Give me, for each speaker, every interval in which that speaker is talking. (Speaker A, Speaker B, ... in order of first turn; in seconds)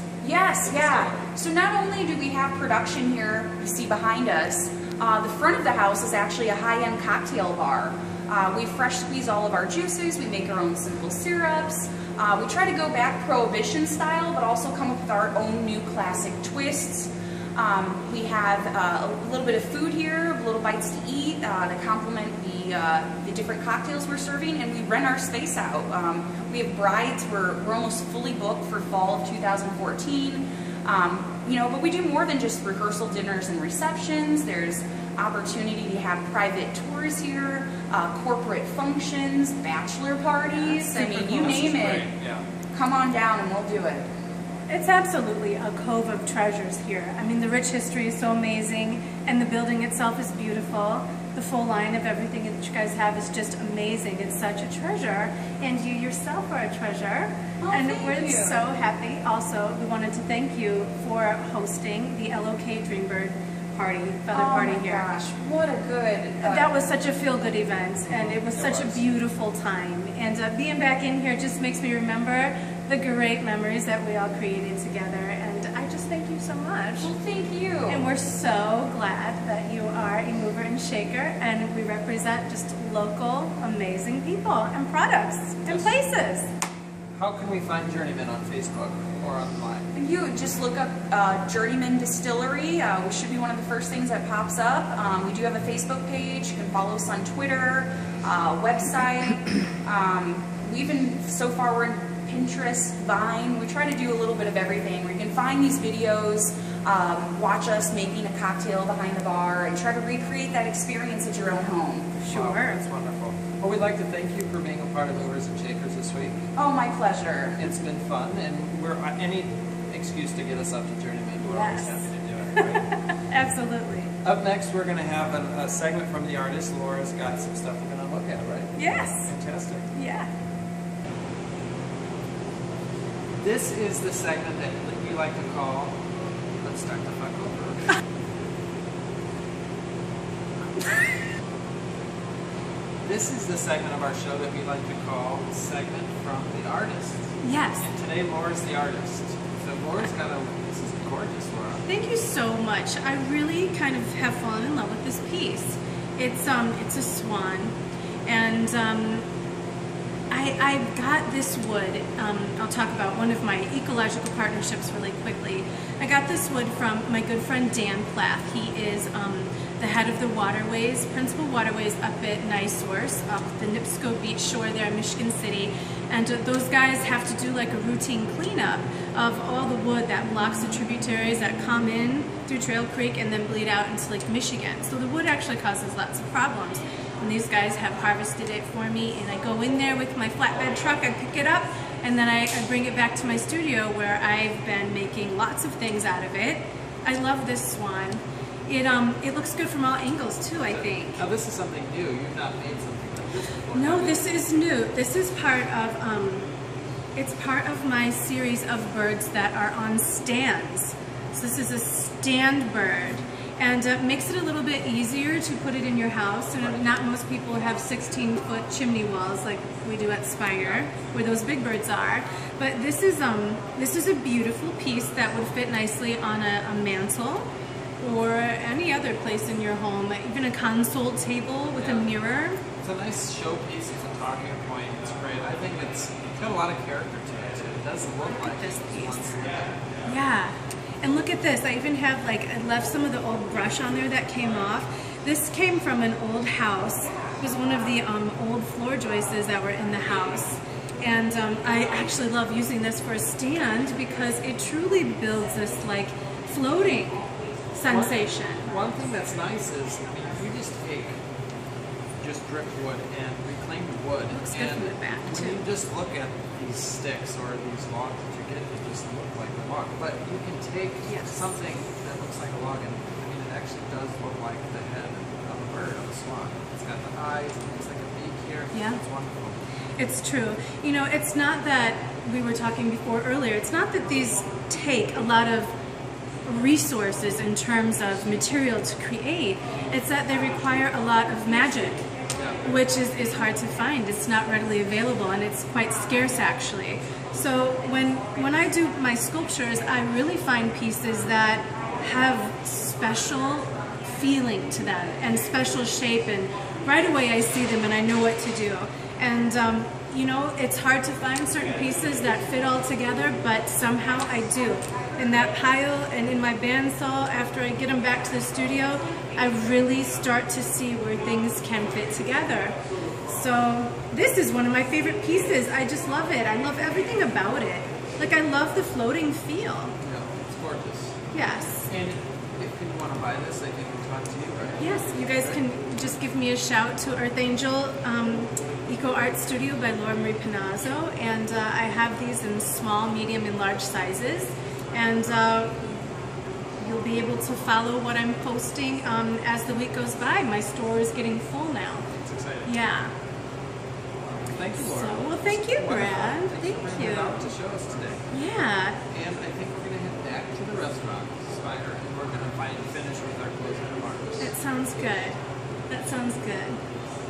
Speaker A: 0.2-42.1, 42.7-44.1, 57.6-58.6, 64.3-66.7, 77.0-78.0, 89.9-112.1, 116.6-117.6
Speaker B: 0.6-1.3, 40.9-42.4, 68.1-69.0, 85.7-86.0, 87.2-89.8, 112.3-116.4, 117.6-122.8, 124.2-129.9, 133.4-135.9, 136.6-137.9, 143.0-147.2, 147.8-151.8, 200.6-204.3, 231.8-232.1, 232.8-240.0, 257.9-261.2, 262.2-279.6, 330.0-335.6, 352.1-352.7, 354.4-358.2, 359.1-365.1
Speaker C: 44.7-65.1, 66.4-77.1, 77.9-86.5, 112.2-112.8, 121.4-124.1, 128.7-129.3, 129.9-130.3, 147.4-147.9, 151.8-157.7, 158.3-159.2, 160.3-201.2, 203.7-206.4, 207.2-227.4, 228.0-232.6, 238.3-239.4, 240.0-258.9, 264.3-265.6, 271.1-271.4, 278.7-279.0, 280.0-285.7, 286.5-292.0, 292.6-329.9, 331.3-331.9, 334.8-345.8, 346.8-352.1, 352.6-353.1, 354.7-357.5, 358.3-359.0, 364.4-365.4, 365.9-366.8